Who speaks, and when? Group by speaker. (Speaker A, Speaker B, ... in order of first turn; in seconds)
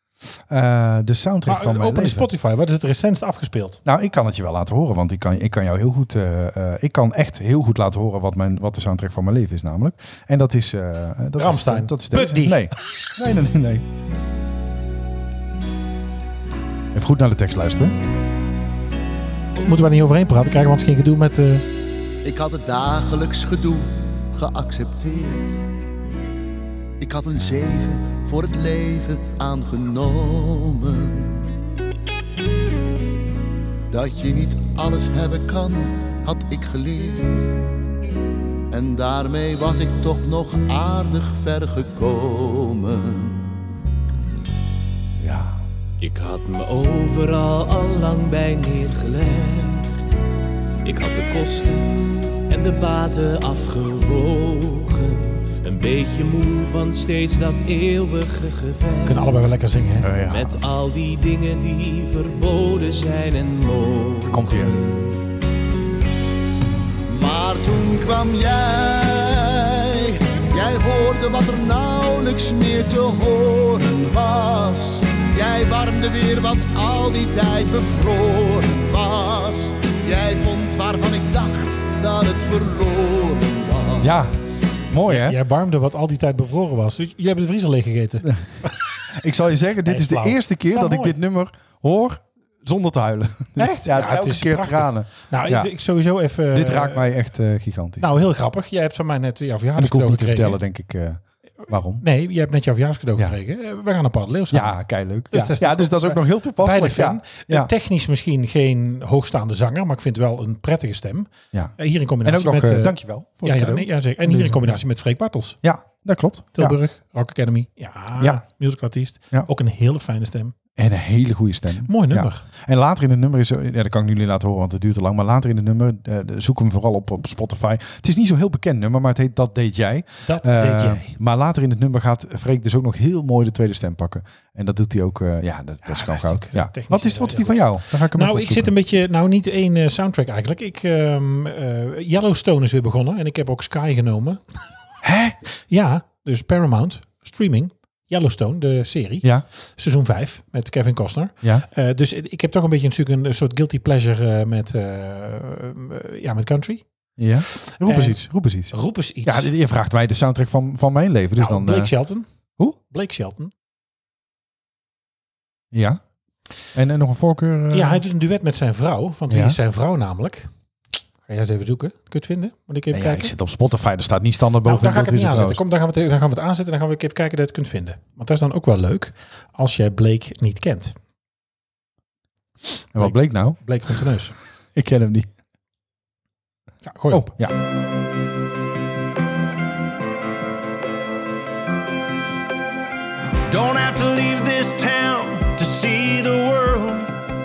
Speaker A: 0.3-2.3, 3.8-13.8, 16.9-17.9, 45.2-45.6, 60.0-60.6, 64.3-64.8, 84.0-84.3, 84.9-85.4, 89.1-95.7, 96.5-98.2, 99.8-102.0, 104.5-107.7, 111.5-114.8, 115.6-116.8, 120.8-138.7, 145.0-145.4, 157.2-161.9, 165.7-166.0, 166.7-168.0, 169.3-169.6, 172.9-175.6, 182.9-184.0, 184.7-185.3, 187.1-187.5
Speaker B: 1.4-3.8, 11.4-12.7, 19.6-21.6, 59.0-60.1, 85.0-88.7, 89.8-91.2, 93.6-97.1, 98.0-100.6, 102.0-115.6, 116.5-120.5, 121.8-122.4, 130.2-131.1, 135.8-144.4, 145.7-156.8, 157.8-159.5, 161.4-162.2, 162.8-163.5, 167.7-170.5, 171.2-173.3, 174.6-180.9, 183.0-184.3, 186.8-187.3
Speaker C: 22.2-25.6, 27.0-31.4, 33.9-37.5, 38.7-43.5, 67.1-84.1, 193.7-197.1
Speaker D: 46.0-50.0, 50.8-59.3, 60.2-65.2
Speaker E: 193.5-197.0